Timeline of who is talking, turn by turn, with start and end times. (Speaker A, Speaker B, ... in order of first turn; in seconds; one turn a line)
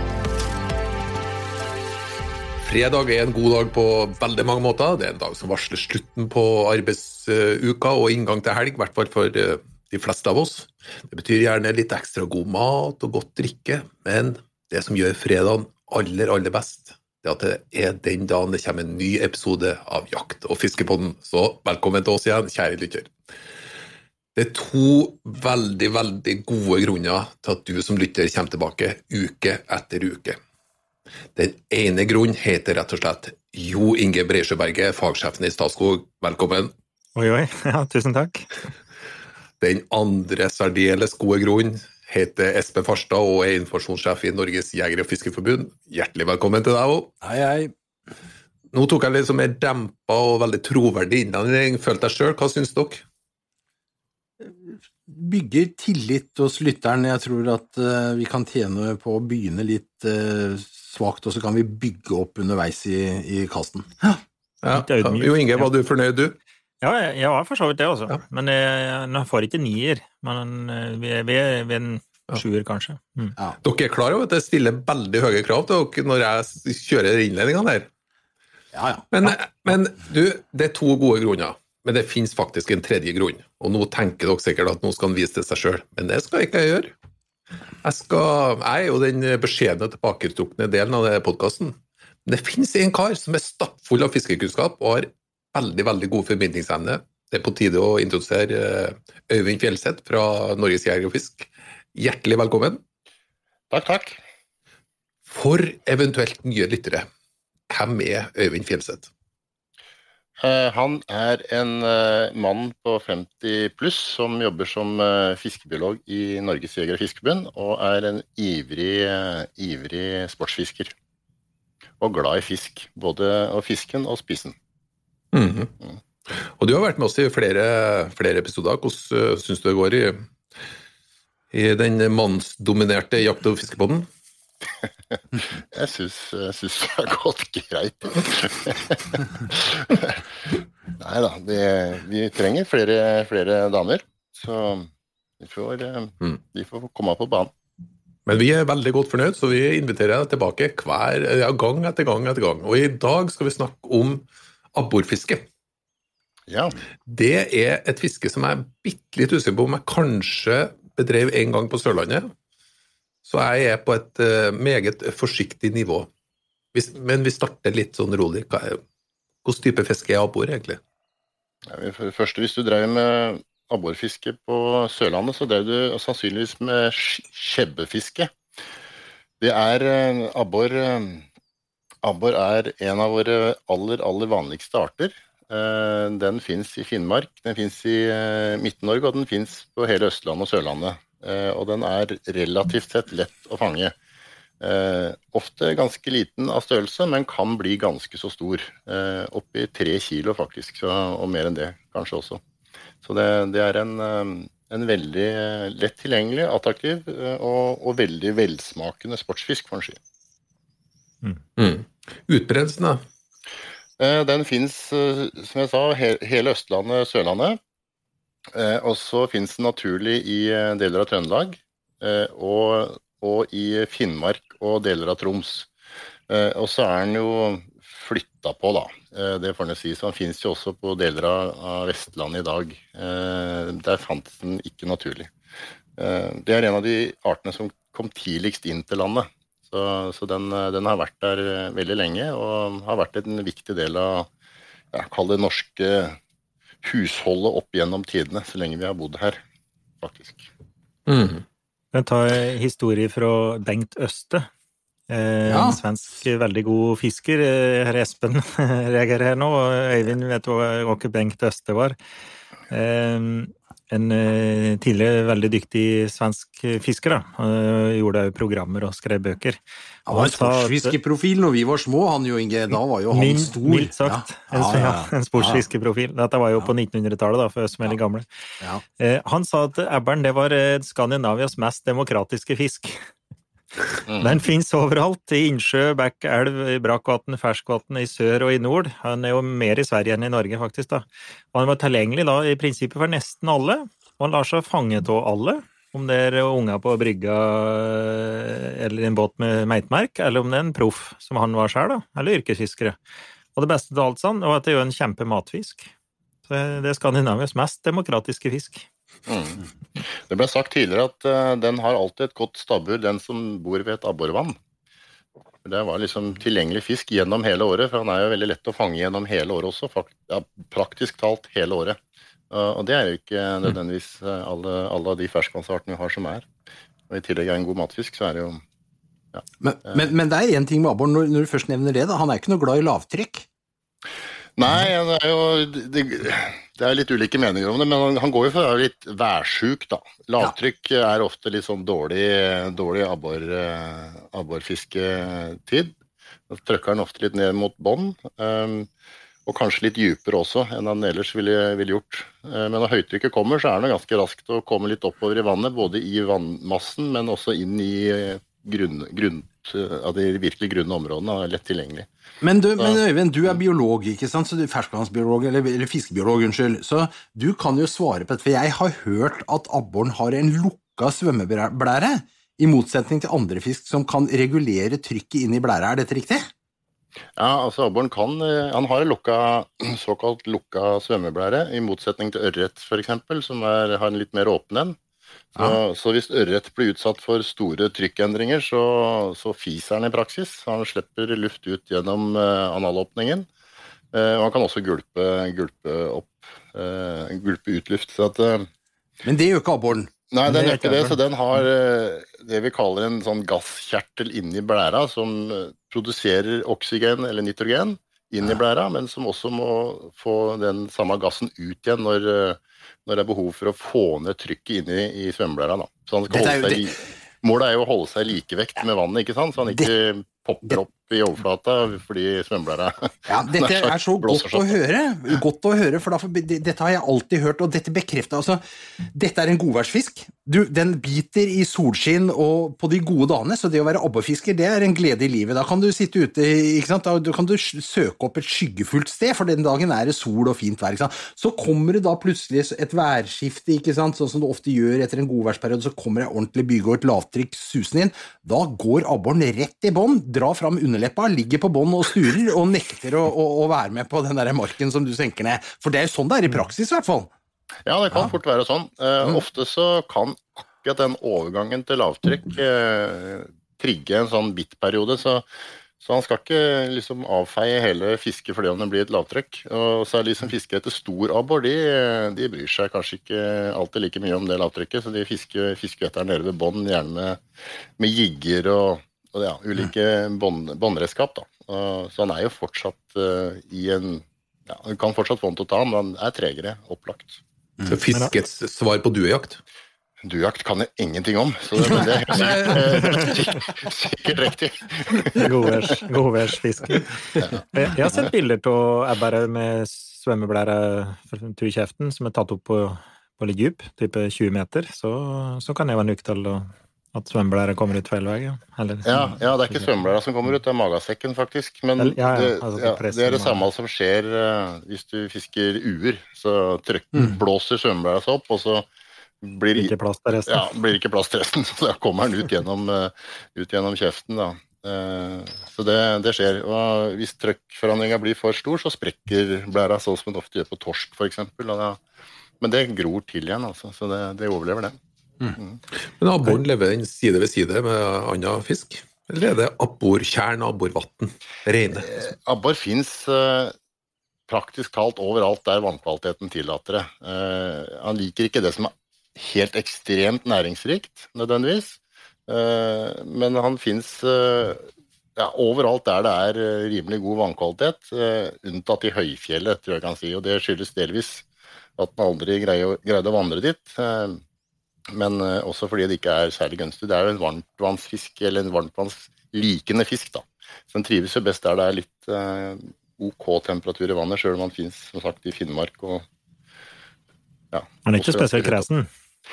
Speaker A: 2.6-23.1
Speaker A: 24.4-30.4
Speaker A: 31.4-36.7
Speaker B: 37.2-38.5
Speaker A: 39.6-47.1
Speaker C: 47.2-47.7
Speaker A: 48.7-53.0
Speaker C: 54.4-64.2
Speaker A: 64.6-66.4
Speaker B: 64.7-65.7
Speaker B: 66.8-73.4
Speaker A: 73.6-77.9
Speaker C: 78.7-79.3
Speaker A: 79.1-86.9
Speaker A: 87.8-102.8
Speaker D: 103.7-104.2
Speaker A: 105.3-107.1
Speaker A: 107.7-109.1
Speaker D: 110.4-120.9
Speaker D: 122.0-124.6
Speaker A: 125.3-125.7
Speaker A: 126.5-130.2
Speaker A: 131.5-134.1
Speaker D: 135.6-140.2
Speaker D: 141.0-144.9
Speaker D: 145.4-147.5
Speaker A: 148.3-155.5
Speaker D: 156.5-156.8
Speaker A: 157.1-162.3
Speaker A: 163.2-166.1
Speaker A: 166.7-168.8
Speaker A: 169.4-170.8
Speaker D: 171.7-178.3
Speaker D: 179.4-181.2
Speaker D: 182.0-193.9
Speaker D: 194.6-202.4
Speaker D: 203.0-210.0
Speaker A: 211.6-213.0
Speaker D: 214.0-217.6
Speaker D: 218.5-225.7
Speaker D: 226.3-235.3
Speaker D: 236.0-244.3
Speaker D: 244.9-246.2
Speaker D: 246.8-249.4
Speaker D: 250.0-250.5
Speaker A: 251.1-251.4
Speaker B: 251.9-254.5
Speaker B: 255.1-262.0
Speaker C: 255.5-255.8
Speaker B: 262.7-271.0
Speaker C: 270.1-275.6
Speaker B: 273.1-278.3
Speaker B: 279.0-283.1
Speaker D: 284.1-284.4
Speaker B: 284.2-303.0
Speaker B: 303.6-305.9
Speaker B: 306.5-308.9
Speaker D: 309.3-314.6
Speaker D: 315.6-322.0
Speaker D: 322.5-326.5
Speaker D: 327.1-328.6
Speaker C: 329.6-333.5
Speaker D: 334.6-345.9
Speaker D: 346.5-348.9
Speaker D: 349.5-362.1
Speaker C: 362.4-376.5
Speaker D: 377.4-385.0
Speaker D: 385.6-393.5
Speaker D: 394.1-398.7
Speaker C: 399.2-401.2
Speaker D: 400.3-424.7
Speaker C: 416.3-417.0
Speaker C: 423.3-457.3
Speaker D: 457.9-465.5
Speaker D: 466.0-477.4
Speaker D: 478.0-487.4
Speaker A: 487.9-489.6
Speaker D: 490.2-495.5
Speaker A: 492.4-492.8
Speaker B: 495.4-509.8
Speaker D: 509.1-518.9
Speaker B: 512.0-513.7
Speaker D: 519.4-519.9
Speaker B: 519.8-520.7
Speaker D: 520.5-532.0
Speaker D: 532.6-535.0
Speaker A: 536.2-542.2
Speaker D: 542.0-543.7
Speaker D: 544.5-564.4
Speaker D: 565.1-576.2
Speaker D: 577.7-578.9
Speaker B: 578.1-579.1